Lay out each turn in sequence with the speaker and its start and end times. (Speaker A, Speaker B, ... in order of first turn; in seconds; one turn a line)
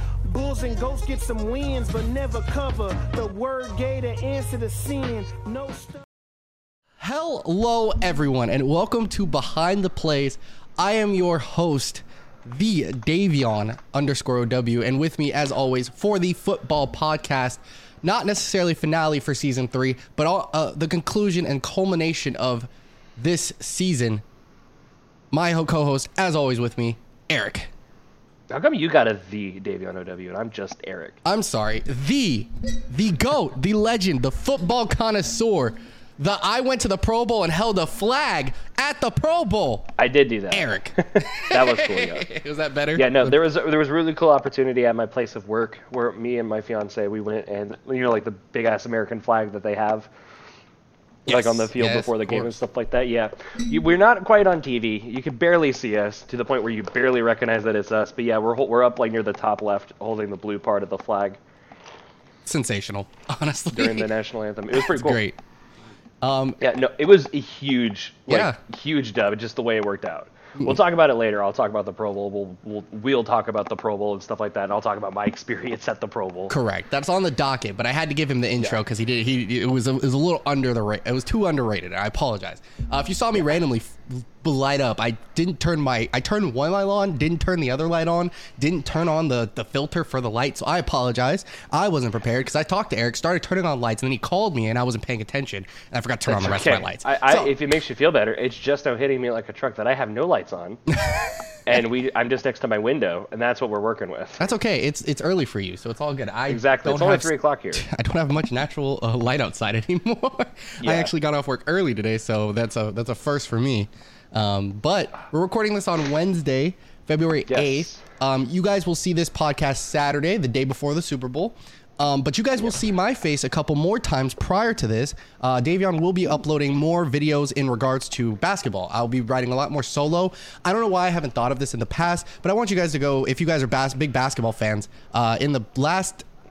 Speaker A: 0.2-6.0
Speaker B: 7.0-24.2
Speaker B: 25.3-27.7
Speaker C: 28.5-31.2
Speaker B: 31.2-39.9
Speaker C: 40.0-42.3
Speaker B: 40.5-43.4
Speaker C: 42.9-50.1
Speaker C: 51.2-61.4
Speaker B: 51.3-52.5
Speaker B: 62.4-64.1
Speaker C: 63.7-65.2
Speaker B: 64.7-65.4
Speaker B: 66.2-66.6
Speaker C: 66.6-76.5
Speaker B: 68.3-68.6
Speaker B: 76.5-97.5
Speaker C: 96.3-100.8
Speaker B: 100.9-101.5
Speaker C: 101.7-104.5
Speaker B: 104.4-136.2
Speaker C: 106.5-107.8
Speaker C: 110.8-111.1
Speaker C: 117.5-118.0